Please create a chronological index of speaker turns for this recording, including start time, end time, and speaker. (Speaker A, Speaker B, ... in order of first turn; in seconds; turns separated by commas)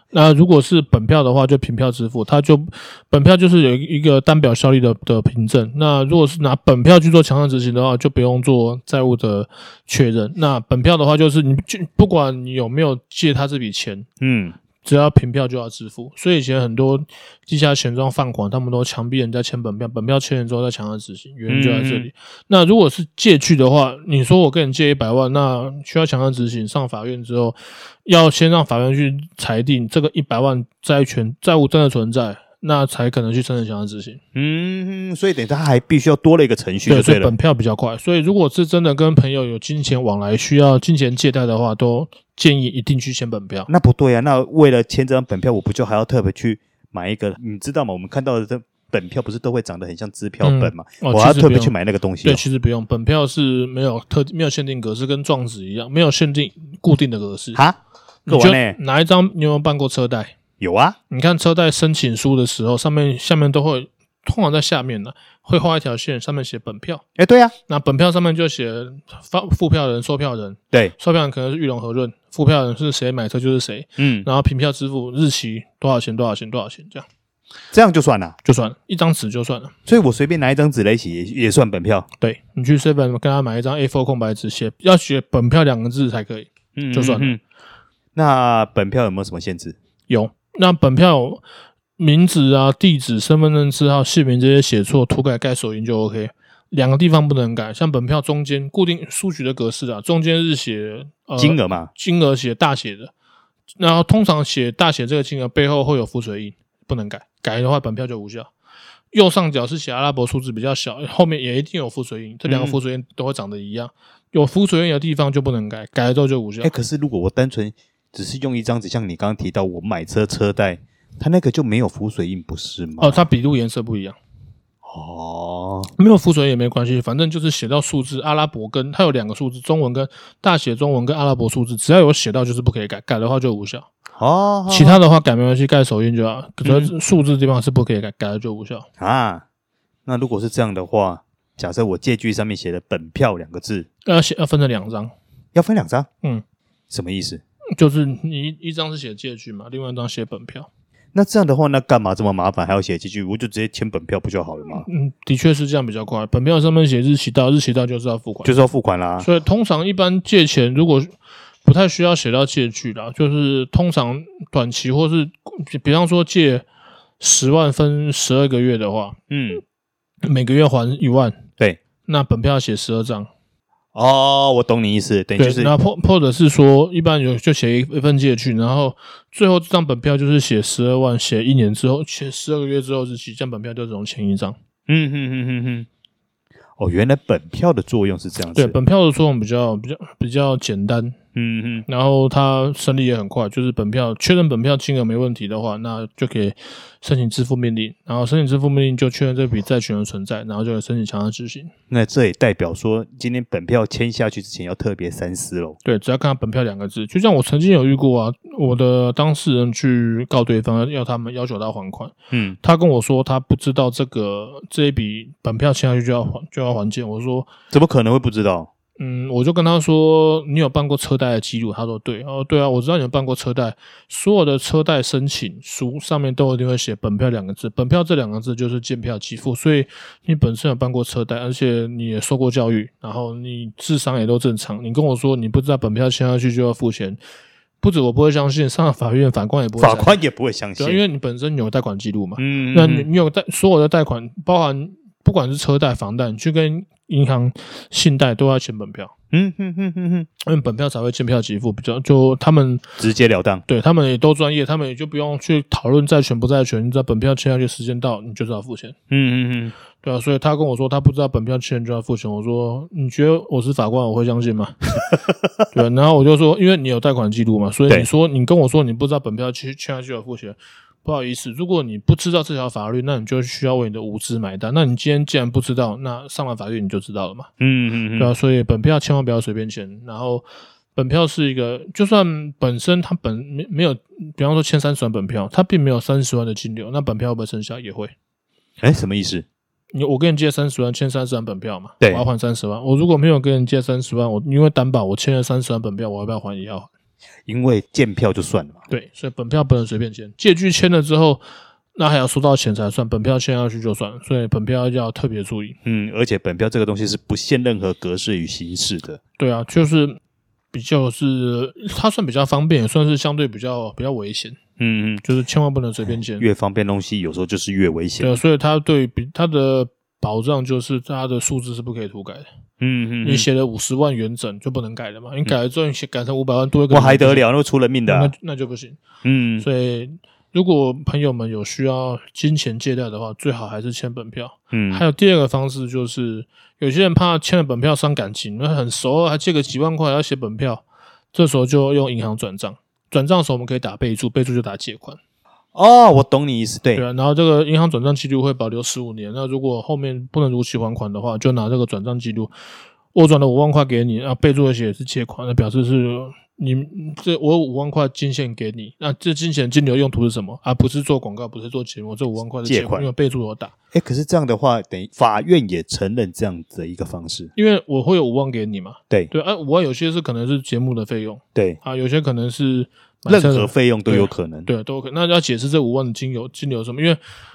Speaker A: 0.1-14.1, Speaker B: 14.2-14.6, Speaker A: 14.8-34.2, Speaker B: 21.5-22.1, Speaker B: 34.3-37.4, Speaker A: 36.9-43.7, Speaker B: 43.7-52.4, Speaker A: 50.4-57.6, Speaker B: 57.5-58.8, Speaker A: 58.3-60.3, Speaker B: 60.6-61.0, Speaker A: 61.1-67.0, Speaker B: 67.2-67.5, Speaker A: 67.7-77.0, Speaker B: 74.0-74.3, Speaker B: 77.7-78.4, Speaker A: 78.4-79.7, Speaker B: 79.8-82.1, Speaker A: 82.2-87.3, Speaker B: 86.8-87.4, Speaker B: 88.1-89.8, Speaker A: 90.1-91.4, Speaker A: 92.0-103.1, Speaker B: 101.4-101.9, Speaker A: 103.8-108.5, Speaker A: 109.1-116.7, Speaker B: 112.4-112.8, Speaker B: 116.6-123.3, Speaker A: 123.0-124.2, Speaker B: 124.8-125.9, Speaker A: 126.0-133.9, Speaker B: 134.2-135.0, Speaker A: 134.7-138.9, Speaker B: 136.6-136.9, Speaker B: 139.0-139.4, Speaker B: 140.1-143.9, Speaker A: 144.0-145.1, Speaker B: 145.5-146.1, Speaker B: 146.9-147.4, Speaker A: 147.8-150.7, Speaker B: 151.1-154.9, Speaker A: 154.7-158.6, Speaker B: 158.4-159.3, Speaker A: 159.2-166.6, Speaker A: 167.2-169.2, Speaker B: 169.3-169.6, Speaker A: 170.2-171.4, Speaker A: 172.1-173.3, Speaker B: 173.9-175.7, Speaker A: 175.4-184.6, Speaker B: 184.9-185.9, Speaker B: 186.8-188.7, Speaker A: 188.5-191.2, Speaker B: 191.3-191.8, Speaker A: 191.9-201.7, Speaker B: 201.9-205.8, Speaker A: 205.8-217.5, Speaker B: 212.3-212.6, Speaker B: 217.7-218.7, Speaker A: 219.0-237.2, Speaker A: 237.8-240.1, Speaker B: 239.8-241.0, Speaker A: 240.8-249.1, Speaker B: 242.4-243.1, Speaker B: 249.3-250.3, Speaker A: 250.4-252.8, Speaker B: 253.0-253.6, Speaker A: 253.7-259.0, Speaker B: 259.1-259.7, Speaker A: 260.0-264.9, Speaker A: 265.7-277.5, Speaker B: 277.6-278.3, Speaker A: 278.2-288.1, Speaker B: 288.8-289.4, Speaker A: 289.9-296.9, Speaker B: 297.5-298.8, Speaker A: 298.9-301.4, Speaker A: 301.9-305.8, Speaker B: 305.8-309.2, Speaker A: 309.4-310.2, Speaker A: 310.7-314.6, Speaker B: 314.8-315.2, Speaker A: 315.2-316.4, Speaker B: 316.4-318.4, Speaker A: 318.2-322.5, Speaker B: 322.8-323.5, Speaker A: 323.2-327.4, Speaker B: 326.9-328.3, Speaker A: 328.1-329.0, Speaker B: 329.2-329.7, Speaker A: 329.6-345.2, Speaker B: 334.7-335.0, Speaker B: 345.7-347.0, Speaker A: 346.9-352.5, Speaker A: 353.1-363.7, Speaker B: 362.6-363.1, Speaker B: 363.9-367.5, Speaker A: 367.6-377.2, Speaker B: 373.3-374.7